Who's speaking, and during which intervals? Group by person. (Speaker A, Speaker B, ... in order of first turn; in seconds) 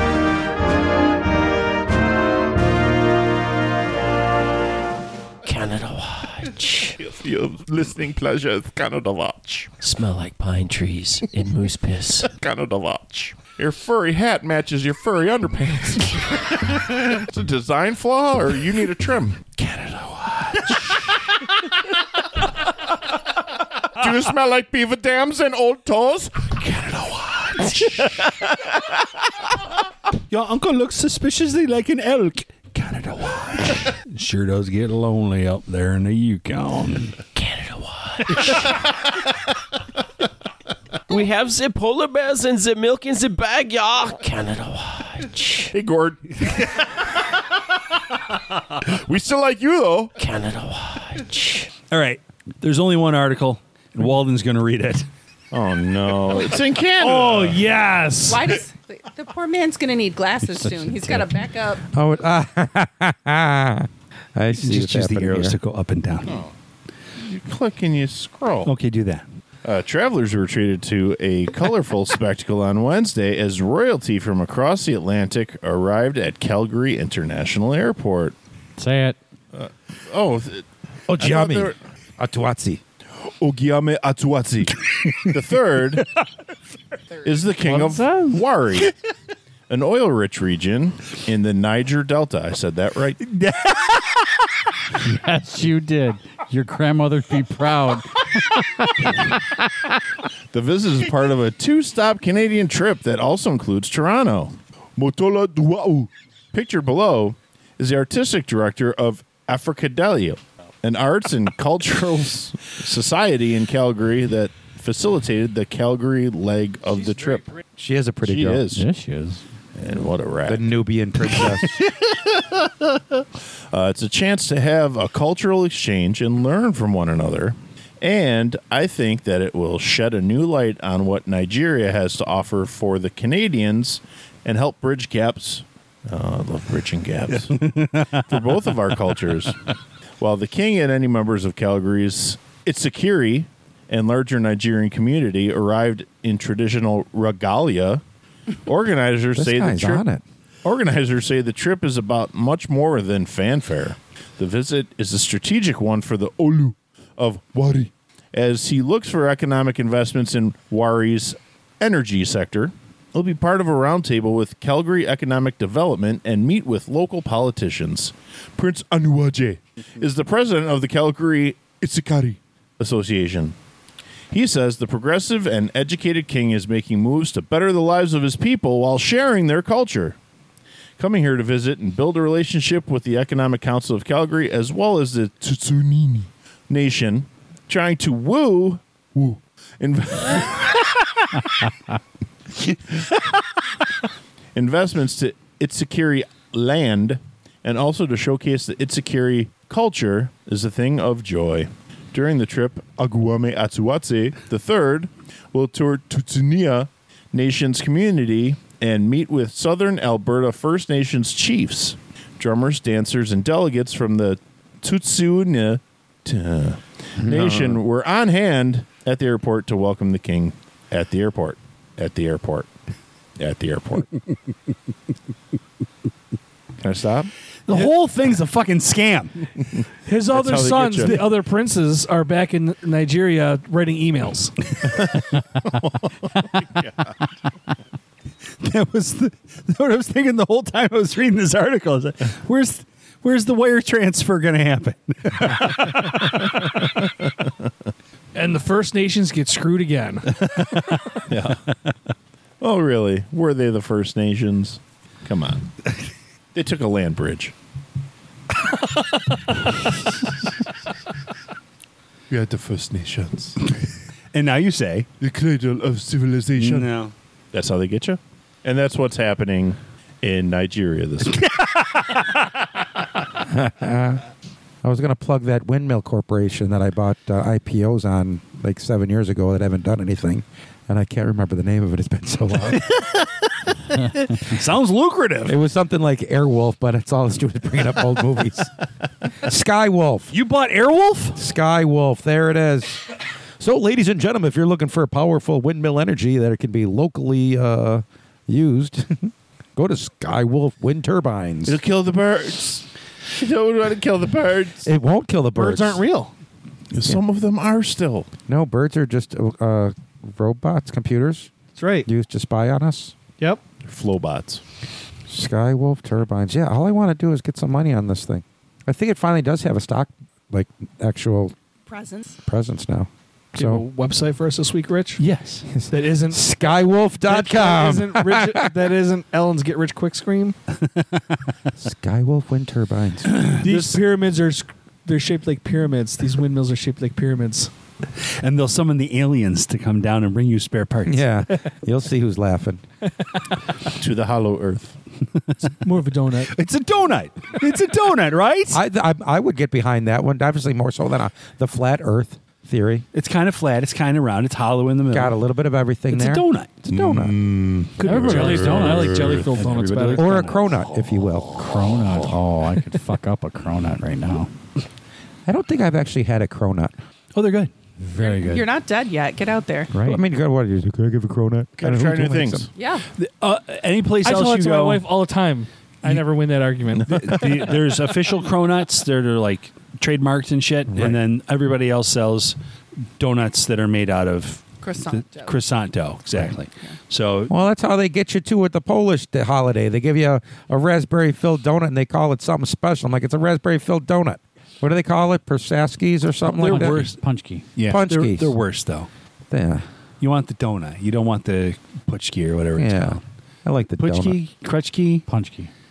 Speaker A: 5.4-7.0, 9.8-12.3, 37.3-38.8, 41.1-45.7, 50.2-51.7
Speaker B: 7.0-9.7, 12.3-19.6, 23.9-26.8, 45.7-47.3, 48.8-50.1, 55.5-57.6, 66.2-66.5, 67.2-68.7, 69.6-78.3, 79.5-81.8, 83.2-86.1, 87.2-88.9, 89.7-93.2, 100.5-117.5, 118.2-118.8, 119.8-120.7, 123.7-139.7, 140.2-148.0, 148.7-150.0, 150.6-173.5, 174.3-180.2, 181.0-191.2, 194.5-222.7, 223.4-224.2, 226.8-227.3, 230.3-231.3, 234.9-237.0, 251.3-251.6, 252.6-255.7, 256.5-257.5, 262.3-263.6, 265.2-266.9, 267.5-271.5, 301.6-304.9, 306.9-308.3, 313.8-314.6, 344.0-345.0, 356.9-359.5, 371.8-372.7, 377.1-377.4
Speaker C: 19.6-20.7, 30.3-37.2, 51.9-55.1, 64.6-66.4, 68.6-69.2, 93.2-94.4, 137.5-138.2, 227.7-229.5, 238.6-246.0, 264.3-265.1, 266.6-267.1, 282.7-285.6, 290.3-291.4, 325.2-325.7, 333.3-334.0, 338.2-341.3, 346.4-348.8, 353.1-355.3, 356.1-356.8, 358.0-360.8, 367.3-367.7, 373.2-375.1, 377.1-382.6, 383.2-384.6, 385.2-387.5, 396.6-397.2, 397.7-399.1, 400.2-403.2, 404.0-405.2
Speaker D: 57.0-58.5, 230.0-234.5, 248.3-250.5, 305.5-306.3, 311.7-312.1, 323.5-325.2, 325.9-326.5, 327.2-330.6, 333.6-337.7, 345.7-346.5, 358.1-360.5, 374.2-377.7
Speaker E: 58.2-61.8, 321.9-322.4, 368.2-369.9, 372.8-373.0, 384.8-385.5
Speaker F: 60.5-61.3, 78.8-79.2, 87.7-88.4, 95.0-99.9, 118.7-119.4, 358.0-359.6, 361.5-364.5, 368.0-368.7, 396.6-397.7, 405.3-405.7
Speaker G: 61.9-65.6, 81.1-82.8, 117.8-118.6, 120.5-121.8, 149.3-150.2, 217.2-217.8, 273.4-274.2, 274.8-282.9, 285.5-288.7, 289.4-290.3, 291.3-301.8, 304.8-306.0, 308.5-311.5, 312.0-313.1, 315.3-321.5, 322.4-323.8, 325.7-328.7, 331.8-333.5, 341.0-342.8, 348.7-353.1, 355.1-357.4, 360.1-361.9, 365.4-366.9, 369.9-372.7, 387.5-397.1, 397.8-398.6, 399.5-399.8, 402.8-404.4